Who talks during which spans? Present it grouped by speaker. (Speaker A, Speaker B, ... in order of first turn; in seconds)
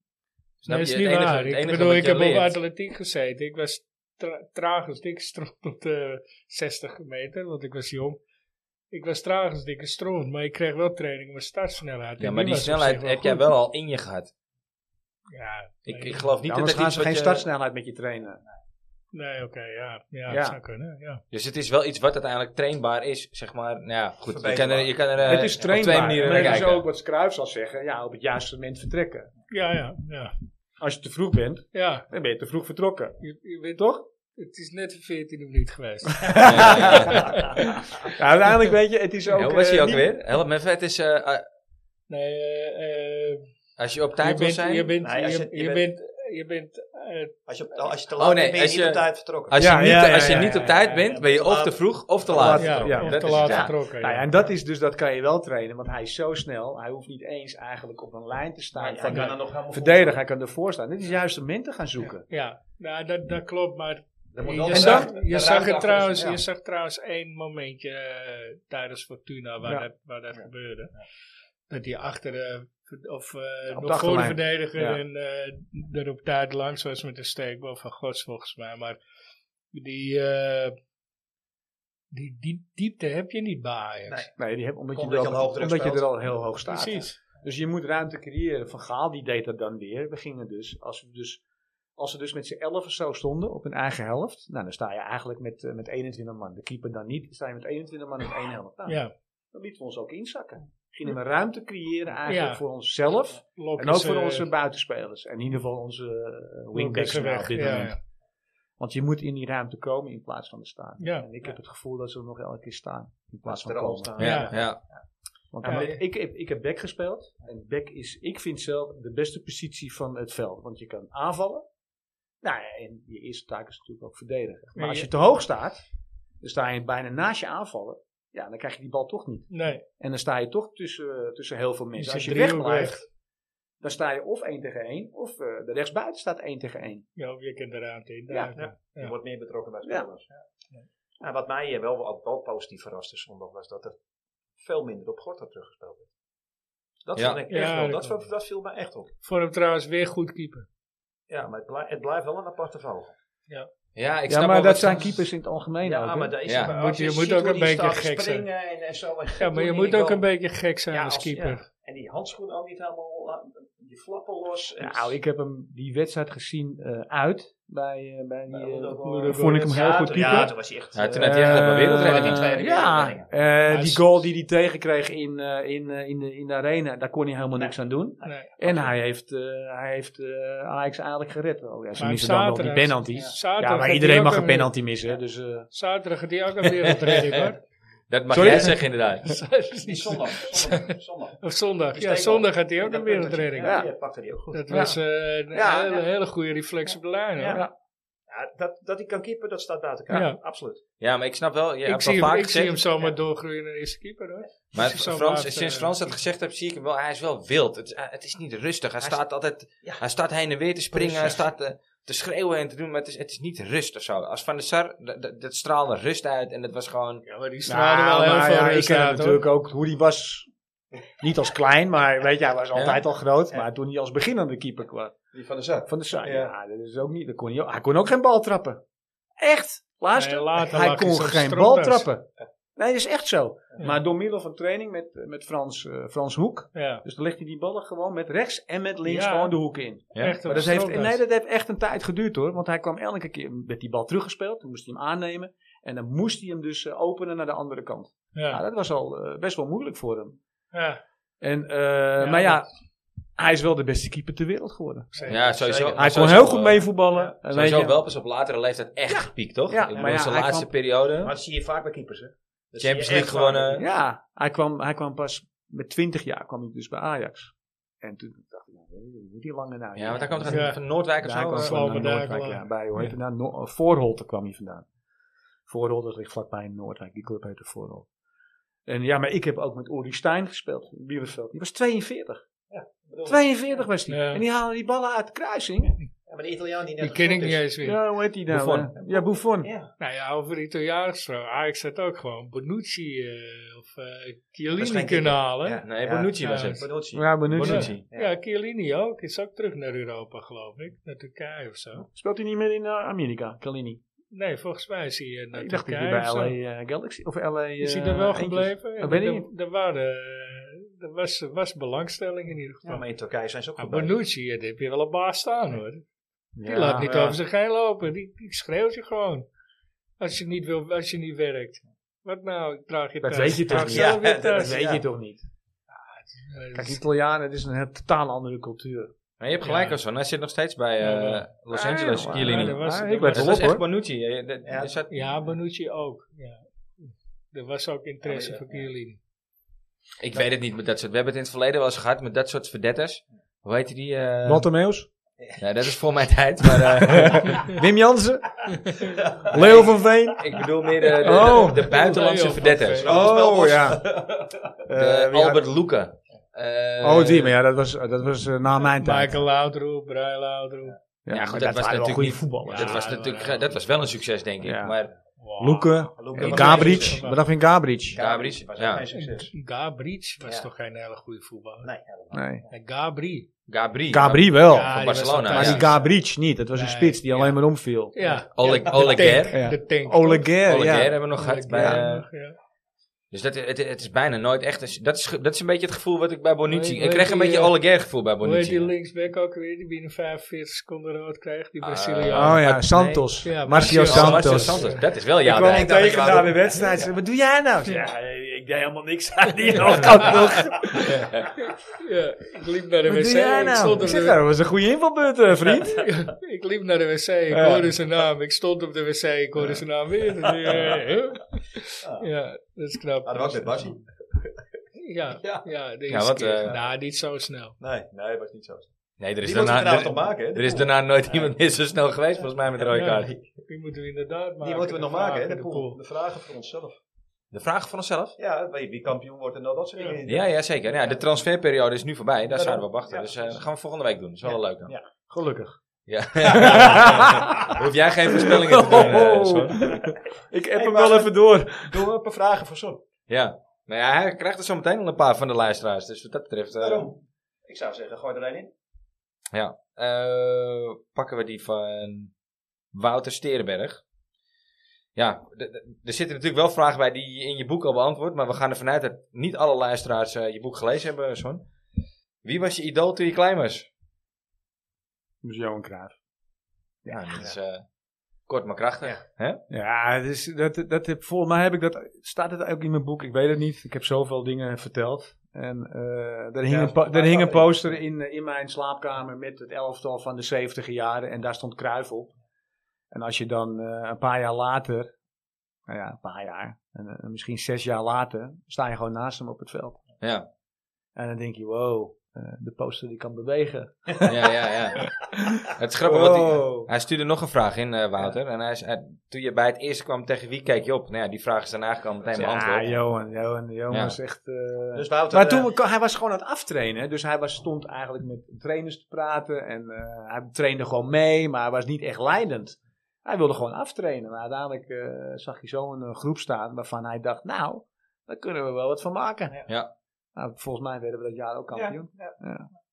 Speaker A: 0.6-2.6, 12.2-14.3, 15.9-17.5, 21.3-26.9, 36.4-37.3, 39.3-41.5, 43.8-44.9, 48.2-53.7, 114.2-114.8, 147.2-147.4, 153.9-155.2, 156.4-156.7, 170.9-172.6, 186.6-187.5, 188.1-189.4, 201.0-202.9, 204.7-217.2, 222.8-223.0, 240.1-240.5, 255.3-256.9, 257.5-261.4, 262.8-263.9, 270.0-272.0, 288.5-288.9, 295.9-298.0, 329.4-335.2, 340.2-344.7, 345.6-347.7, 349.5-353.1, 354.9-357.6, 361.3-365.1, 368.2-369.1, 373.7-375.9, 378.5-379.6, 380.7-382.3, 383.3-388.9, 391.8-396.5, 401.0-401.5, 416.1-416.8, 419.2-423.3, 427.5-428.4, 430.2-434.9, 436.1-439.9, 443.3-447.1, 449.5-452.3, 452.9-454.0, 455.2-461.7, 462.4-463.9, 467.1-467.9, 468.5-469.6, 490.2-490.5, 494.2-495.1, 495.7-502.9, 503.9-504.2
Speaker B: 0.7-8.2, 8.9-13.5, 15.3-16.3, 19.1-21.2, 29.5-30.3, 31.7-32.1, 33.2-38.1, 42.1-43.5, 44.2-47.3, 52.6-54.3, 59.1-59.3, 62.3-70.9, 71.7-79.0, 79.7-80.8, 82.1-84.3, 86.7-87.2, 98.9-99.1, 102.3-102.6, 103.5-104.5, 106.7-108.0, 111.0-111.2, 114.2-114.5, 115.7-116.0, 124.8-125.1, 129.5-129.8, 132.0-133.0, 137.2-139.1, 147.5-148.2, 149.2-150.7, 156.6-158.5, 159.4-161.6, 169.0-170.5, 173.7-174.1, 178.2-178.5, 182.0-184.7, 185.7-187.6, 189.2-193.8, 194.5-197.6, 200.1-200.4, 201.8-206.0, 217.2-219.4, 230.2-232.1, 236.8-237.0, 239.0-239.5, 240.1-241.2, 248.3-248.6, 250.7-251.0, 252.2-252.6, 255.1-255.5, 270.5-270.8, 271.5-273.1, 284.1-284.4, 287.0-288.0, 290.0-295.9, 296.4-296.9, 297.6-302.1, 304.3-306.5, 307.8-313.0, 313.8-316.0, 316.6-319.4, 320.2-324.8, 326.2-327.0, 329.6-330.0, 331.0-331.4, 332.3-333.7, 335.1-339.2, 351.4-353.1, 359.0-361.0, 362.7-363.7, 365.4-367.4, 369.1-371.9, 372.7-373.5, 374.7-376.0, 376.8-377.6, 378.1-382.6, 386.7-392.7, 393.4-395.0, 401.7-404.4, 405.9-413.9, 415.0-417.8, 422.9-426.0
Speaker C: 16.5-18.4, 20.3-20.6, 25.2-29.3, 30.8-33.2, 33.8-34.0, 36.2-37.2, 37.9-40.1, 49.6-50.7, 52.3-62.2, 64.7-65.1, 73.7-75.0, 84.4-91.4, 92.0-99.0, 99.5-108.0, 108.8-114.2, 115.5-121.6, 122.4-125.8, 126.4-133.0, 133.8-137.0, 138.3-138.5, 154.3-156.4, 164.8-170.5, 171.1-185.7, 188.3-188.8, 193.6-193.9, 194.7-195.0, 195.5-196.0, 217.7-220.5, 221.2-225.1, 225.9-228.8, 229.4-250.4, 251.4-252.7, 253.4-255.1, 255.9-258.0, 259.7-260.7, 263.8-274.9, 275.7-278.1, 278.9-282.4, 283.2-286.0, 287.8-289.7, 297.1-297.9, 302.1-304.0, 305.5-309.5, 316.6-317.4, 323.2-325.4, 326.7-329.1, 331.7-333.9, 344.4-345.1, 347.0-348.6, 349.5-350.6, 351.2-352.1, 353.0-354.1, 354.9-355.7, 357.0-359.4, 361.2-363.0, 364.6-364.9, 365.6-368.2, 372.3-372.6, 374.1-378.1, 379.5-381.2, 381.7-382.0, 392.3-394.9, 395.4-401.2, 403.1-406.0, 407.5-407.8, 435.2-435.8, 436.5-437.7, 438.3-442.1, 465.4-466.2, 467.0-467.5, 469.7-482.3, 483.1-485.1, 485.9-490.0, 491.2-494.3, 495.2-496.8, 502.4-519.6, 520.4-522.7
Speaker D: 24.2-26.4, 45.0-45.9, 47.5-53.7, 58.8-60.2, 64.3-66.4, 84.9-86.1, 113.5-115.0, 115.6-116.0, 138.6-140.3, 141.2-143.9, 144.6-146.1, 147.0-149.1, 151.3-153.1, 155.8-160.2, 160.9-165.2, 168.5-173.3, 177.6-178.9, 189.8-191.4, 191.9-194.9, 195.6-196.0, 197.4-197.7, 198.3-200.8, 211.0-211.4, 225.3-226.5, 255.2-256.6, 259.9-260.2, 261.2-263.8, 282.7-283.9, 286.3-287.6, 289.0-289.9, 294.7-297.2, 298.1-298.4, 312.8-314.1, 323.7-325.1, 334.7-335.0, 338.2-338.9, 349.1-350.0, 353.0-354.7, 366.2-367.2, 368.1-369.5, 370.4-370.7, 371.8-372.7, 378.2-379.5, 395.5-396.9, 409.6-411.1, 413.2-414.5, 415.4-415.7, 417.8-418.9, 419.4-421.5, 423.1-423.5, 424.6-427.0, 428.4-431.2, 432.5-433.6, 434.4-435.0, 436.5-437.8, 438.9-439.2, 440.8-443.0, 446.7-448.7, 476.7-478.0, 496.2-496.9, 504.9-505.7, 521.7-522.3